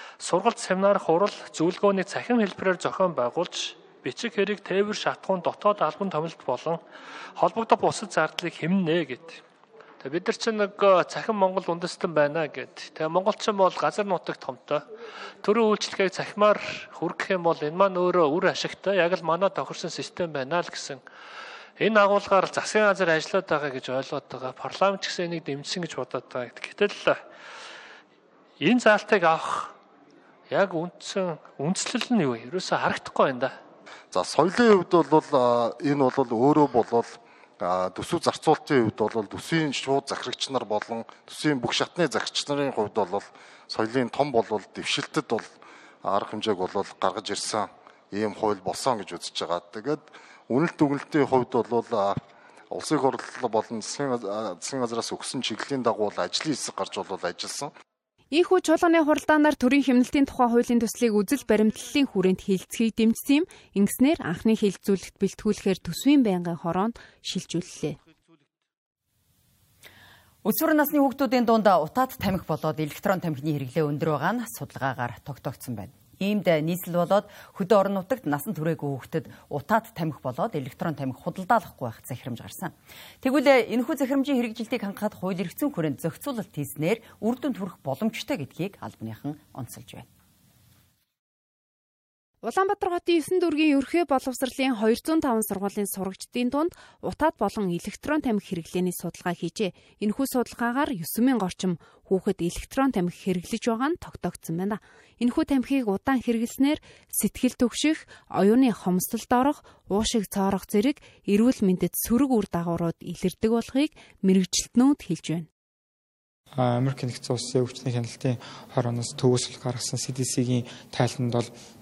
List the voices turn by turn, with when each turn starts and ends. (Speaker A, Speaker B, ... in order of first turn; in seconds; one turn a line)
Speaker A: 0.2-6.8
Speaker A: 7.4-9.4
Speaker A: 10.0-14.8
Speaker A: 15.4-21.0
Speaker A: 21.8-27.2
Speaker A: 28.6-29.8
Speaker A: 30.5-33.6
Speaker B: 34.1-45.5
Speaker B: 46.0-52.2
Speaker B: 52.7-57.7
Speaker C: 58.3-68.0
Speaker D: 70.4-90.1
Speaker C: 92.4-115.5
Speaker E: 116.5-121.5